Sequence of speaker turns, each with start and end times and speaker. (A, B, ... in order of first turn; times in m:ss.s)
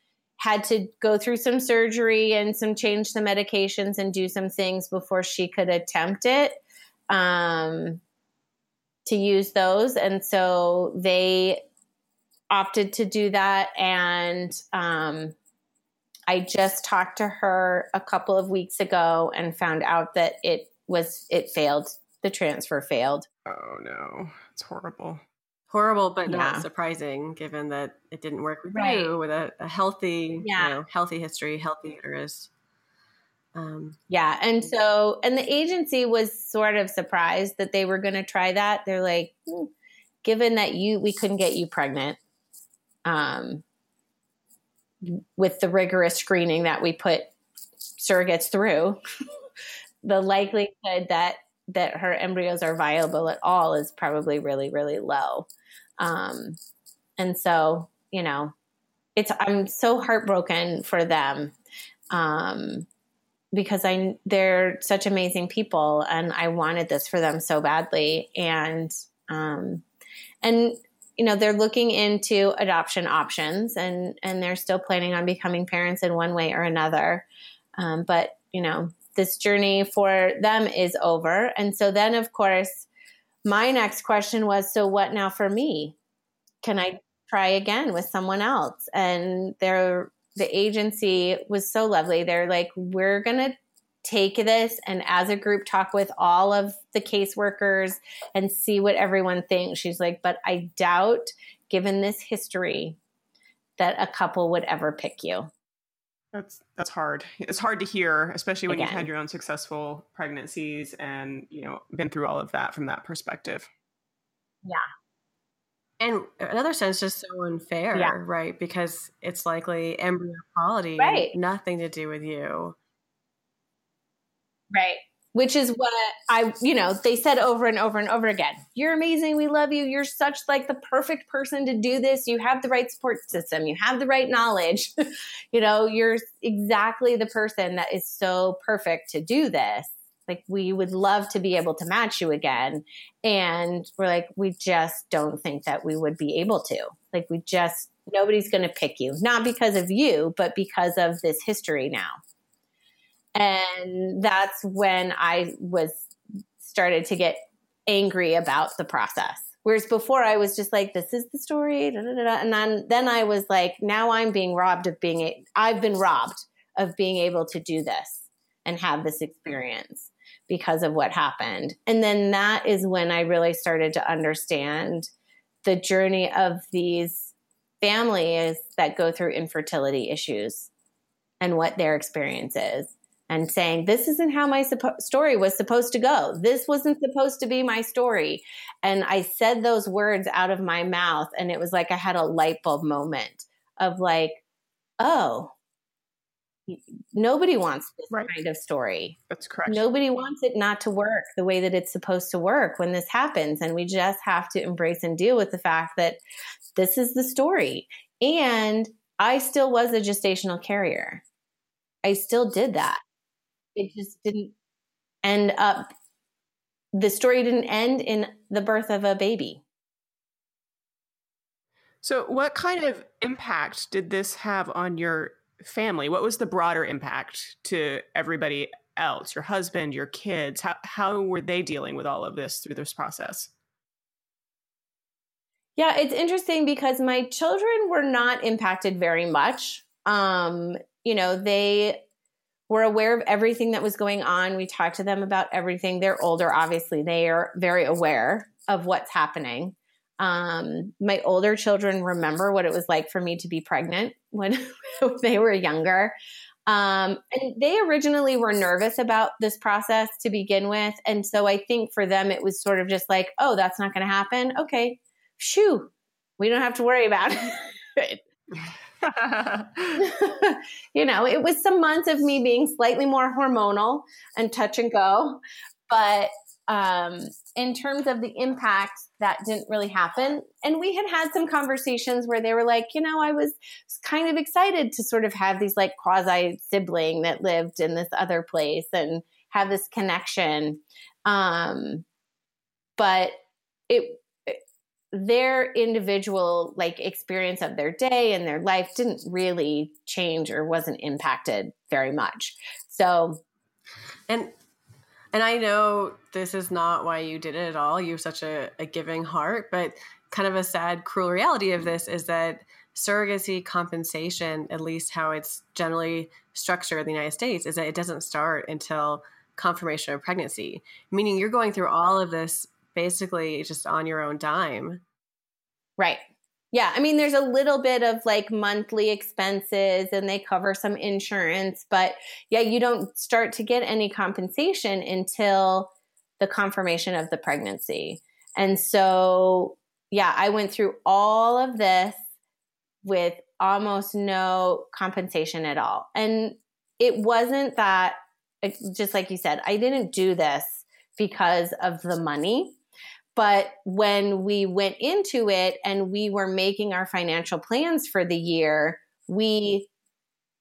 0:00.4-0:08.0 A
0:09.0-0:11.6 A
0:12.5-0:15.3 A
0:16.3-0:23.3 A
0:23.4-0:25.2 B
0:25.7-0:32.5 C
0:26.2-0:26.6 A
0:28.7-0:29.1 A
0:30.4-0:30.8 A
0:33.5-0:34.0 C
0:34.1-0:39.7 A
0:40.2-0:42.2 A
0:43.0-0:43.6 A
0:45.0-0:47.3 A
0:48.0-0:49.0 A
0:50.0-0:55.5 A
0:56.0-0:56.6 A
0:57.2-0:58.5 A
0:59.2-1:01.5 A
1:02.1-1:02.9 A
1:03.5-1:09.8 A
1:10.4-1:17.2 A
1:17.8-1:22.9 A
1:23.4-1:25.9 A
1:26.6-1:43.0 A
1:43.8-1:45.5 A
1:46.3-1:53.7 B
1:48.7-1:49.1 A
1:56.0-2:02.8 C
2:01.0-2:01.3 A
2:04.7-2:14.9 A
2:15.5-2:32.2 A
2:33.3-2:36.1 A
2:36.6-2:55.1 A
2:55.6-3:00.7 A
3:01.4-3:14.4 A
3:15.0-3:15.5 A
3:16.7-3:26.2 A
3:19.3-3:19.8 B
3:26.8-3:31.2 A
3:32.0-3:33.0 A
3:33.8-3:34.5 A
3:35.2-3:35.9 A
3:36.9-3:39.6 A
3:42.0-3:53.5 B
3:55.8-4:02.0 A
4:02.7-4:16.1 A
4:16.7-4:28.2 A
4:29.0-4:30.0 B
4:30.0-4:52.0 A
4:53.0-4:53.4 A
4:53.9-4:54.6 A
4:55.1-5:03.4 A
5:04.3-5:04.5 C
5:05.3-5:25.0 C
5:26.0-5:42.2 A
5:43.0-5:52.8 A
5:53.3-5:59.9 A